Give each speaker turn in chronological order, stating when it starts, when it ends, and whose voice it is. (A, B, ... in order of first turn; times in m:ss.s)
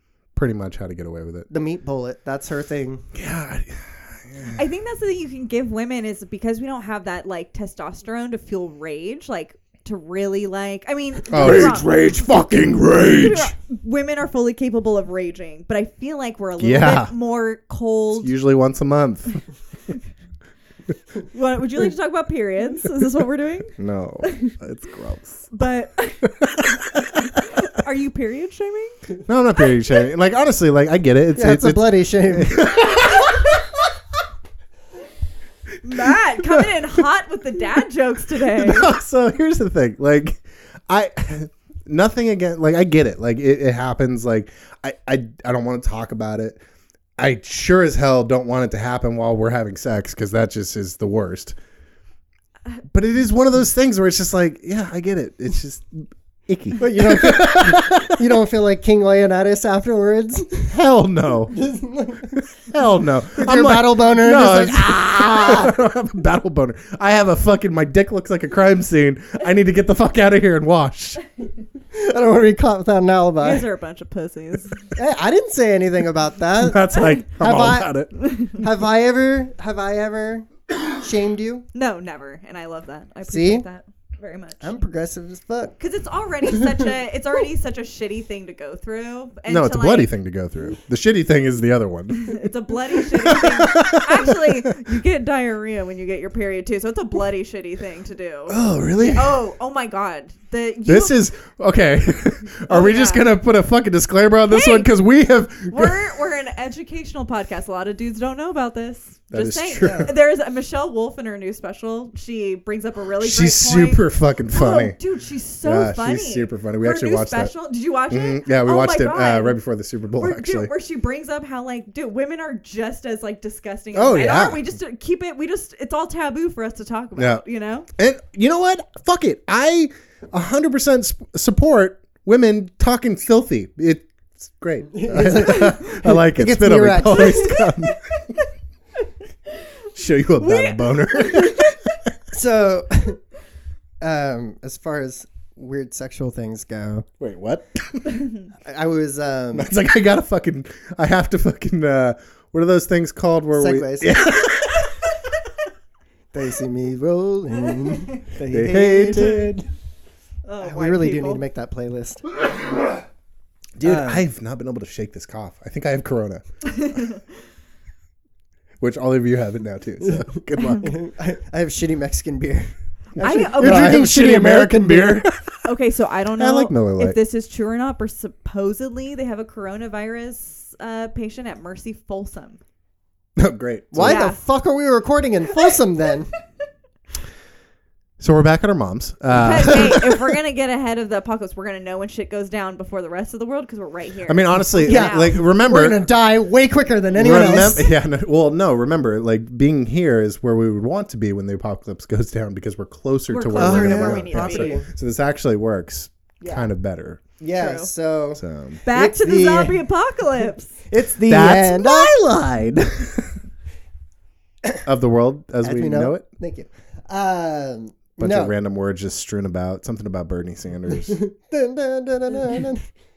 0:00.4-0:01.5 A
0:01.5-0:03.0 B
0:03.2-0:04.6 A
0:04.5-0:12.1 C
0:11.3-0:13.5 A
0:11.4-0:11.8 B
0:13.0-0:18.3 C
0:16.6-0:17.1 A
0:18.2-0:19.4 A
0:21.3-0:24.5 C
0:23.8-0:25.5 A
0:25.5-0:26.5 C
0:26.4-0:27.0 A
0:27.2-0:29.0 C
0:29.3-0:33.6 A
0:31.4-0:32.8 B
0:35.8-0:38.9 C
0:38.6-0:46.6 A
0:47.2-0:51.6 A
0:52.9-0:58.3 A
0:56.8-1:00.7 B
1:00.7-1:01.6 A
1:01.5-1:02.4 B
1:02.3-1:11.2 A
1:03.4-1:05.8 B
1:11.9-1:13.7 B
1:13.4-1:14.8 C
1:15.0-1:18.0 B
1:16.6-1:18.1 A
1:18.5-1:21.7 B
1:21.7-1:24.8 C
1:23.3-1:23.6 B
1:24.6-1:25.8 B
1:25.8-1:30.1 C
1:29.5-1:32.4 A
1:32.2-1:41.2 C
1:33.2-1:34.7 A
1:38.5-1:39.4 A
1:40.9-1:46.1 A
1:42.7-1:43.3 C
1:44.5-1:44.9 C
1:45.7-1:59.6 C
1:49.3-1:50.1 A
1:49.8-1:50.1 B
1:53.2-1:55.0 A
1:55.6-1:57.5 A
1:58.1-2:00.7 A
2:00.2-2:07.9 C
2:03.9-2:04.6 A
2:07.2-2:07.4 A
2:08.0-2:18.3 A
2:14.9-2:17.7 B
2:20.0-2:21.8 A
2:20.4-2:21.8 C
2:22.3-2:23.2 B
2:24.0-2:27.1 B
2:27.2-2:28.3 A
2:28.6-2:29.7 B
2:29.5-2:34.9 A
2:33.5-2:34.3 B
2:36.3-2:39.5 B
2:38.4-2:39.6 A
2:40.4-2:41.4 C
2:40.6-2:42.2 B
2:43.8-2:44.2 B
2:43.8-2:46.4 A
2:46.7-2:47.2 C
2:48.8-2:50.9 A
2:50.8-2:55.2 B
2:53.2-2:54.0 C
2:53.6-2:55.6 A
2:55.6-3:02.6 C
2:56.4-2:57.2 A
3:03.4-3:04.2 A
3:03.9-3:06.3 B
3:04.0-3:04.4 C
3:08.2-3:10.2 A
3:09.3-3:15.4 C
3:14.3-3:16.0 A
3:14.8-3:17.9 B
3:17.2-3:27.2 A
3:23.3-3:24.8 C
3:23.5-3:24.9 B
3:27.4-3:29.8 B
3:27.6-3:27.9 C
3:28.4-3:28.8 A
3:28.8-3:30.8 C
3:30.9-3:32.2 B
3:31.3-3:33.3 A
3:34.8-3:36.2 A
3:35.6-3:38.5 B
3:38.2-3:41.2 A
3:41.1-3:42.9 B